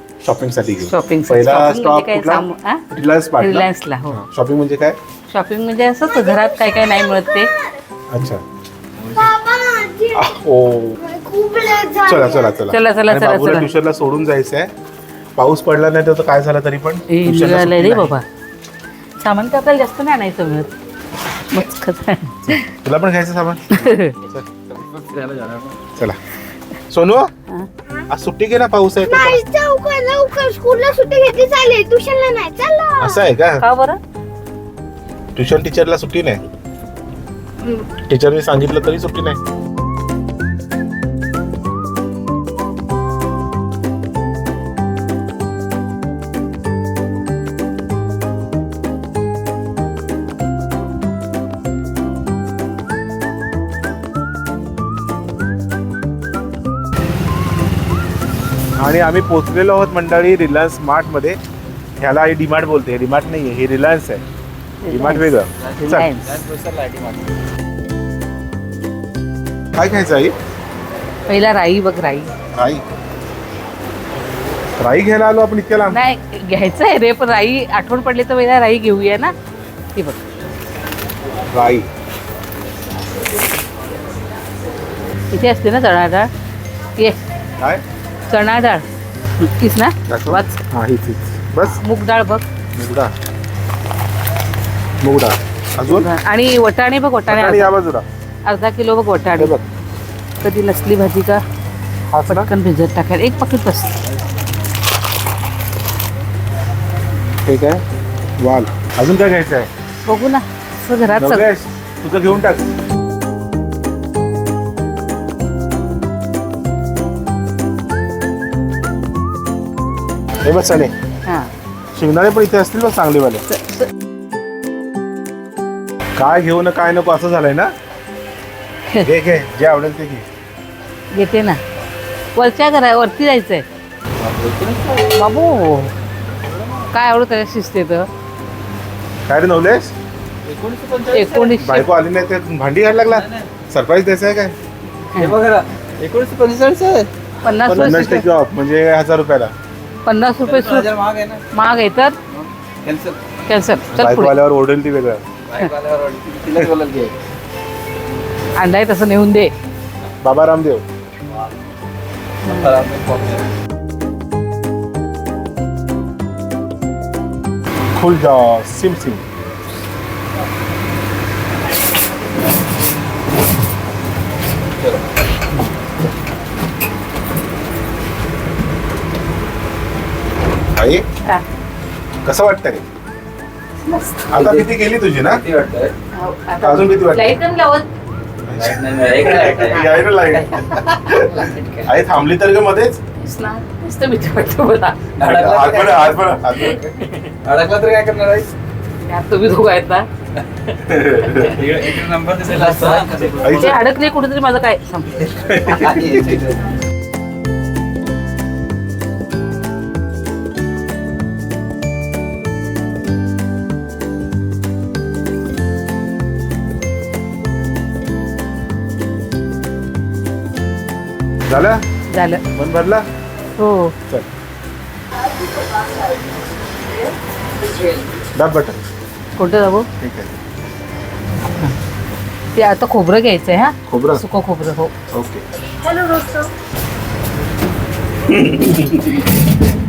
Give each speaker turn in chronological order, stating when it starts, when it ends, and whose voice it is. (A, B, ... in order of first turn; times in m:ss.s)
0:00.2-0:05.0 A
0:00.9-0:02.8 B
0:03.4-0:04.2 B
0:05.3-0:07.5 B
0:06.0-0:07.8 C
0:08.1-0:08.4 A
0:09.0-0:09.3 A
0:09.1-0:10.3 C
0:10.1-0:11.0 A
0:11.0-0:12.7 C
0:12.0-0:14.7 A
0:12.7-0:13.7 B
0:15.4-0:18.2 A
0:17.1-0:18.2 B
0:19.2-0:20.7 B
0:21.5-0:22.7 B
0:22.4-0:24.4 A
0:23.8-0:24.2 B
0:24.7-0:25.8 D
0:26.9-0:27.3 A
0:28.1-0:29.4 A
0:29.0-0:33.2 C
0:33.0-0:33.6 A
0:33.6-0:34.0 B
0:35.3-0:36.4 A
0:37.7-0:39.4 A
0:58.8-1:01.4 A
1:02.0-1:04.2 A
1:04.8-1:06.3 B
1:04.9-1:06.1 A
1:05.6-1:07.2 D
1:09.8-1:10.3 A
1:11.3-1:12.3 B
1:12.5-1:12.8 A
1:14.8-1:16.0 A
1:15.9-1:19.3 B
1:19.9-1:20.2 B
1:21.5-1:21.9 A
1:25.3-1:26.3 B
1:27.0-1:27.2 B
1:28.3-1:28.8 B
1:29.4-1:30.6 B
1:30.1-1:31.8 A
1:31.7-1:32.4 B
1:32.7-1:33.1 A
1:35.0-1:36.1 A
1:35.9-1:37.7 B
1:37.3-1:38.0 A
1:38.4-1:39.5 B
1:39.4-1:39.6 A
1:40.4-1:41.4 B
1:42.1-1:42.5 A
1:42.3-1:44.0 B
1:47.4-1:47.8 A
1:48.4-1:49.7 A
1:50.0-1:51.5 B
1:51.2-1:52.6 A
2:00.4-2:00.9 A
2:01.2-2:01.5 B
2:02.0-2:03.4 A
2:03.5-2:03.9 B
2:06.2-2:07.7 A
2:09.0-2:10.2 A
2:11.1-2:11.6 B
2:12.4-2:13.7 B
2:14.4-2:15.2 D
2:15.2-2:15.9 B
2:16.5-2:16.9 D
2:16.9-2:18.1 B
2:19.2-2:19.9 A
2:20.4-2:21.8 D
2:21.1-2:21.8 B
2:21.6-2:24.6 A
2:23.1-2:23.5 D
2:25.1-2:27.1 D
2:27.4-2:28.2 B
2:27.7-2:29.5 A
2:30.0-2:30.9 B
2:30.4-2:31.5 D
2:31.5-2:32.2 B
2:32.3-2:33.4 D
2:33.5-2:34.3 B
2:33.9-2:35.2 A
2:35.4-2:37.1 D
2:38.6-2:39.5 B
2:40.2-2:40.8 A
2:42.4-2:43.5 D
2:42.4-2:42.8 B
2:47.9-2:49.2 A
3:00.8-3:01.0 A
3:02.2-3:02.8 A
3:03.8-3:04.3 B
3:04.3-3:05.4 A
3:04.3-3:04.7 D
3:05.2-3:05.9 D
3:06.1-3:07.9 B
3:06.6-3:07.3 A
3:08.4-3:13.0 A
3:08.6-3:09.8 D
3:13.2-3:15.1 B
3:15.1-3:16.1 D
3:15.2-3:16.8 A
3:16.8-3:18.5 D
3:19.1-3:20.1 B
3:20.8-3:21.6 A
3:21.2-3:23.8 D
3:23.4-3:23.8 A
3:23.6-3:25.6 B
3:25.3-3:25.9 A
3:25.6-3:26.6 D
3:41.5-3:41.8 A
3:42.1-3:42.4 B
3:42.5-3:43.0 A
3:43.6-3:44.0 B
3:48.3-3:48.8 A
3:49.4-3:49.9 B
3:50.0-3:50.3 A
3:51.5-3:51.7 B
3:52.5-3:54.9 B
3:53.9-3:54.2 A
3:55.1-3:55.4 A
3:58.3-3:59.2 A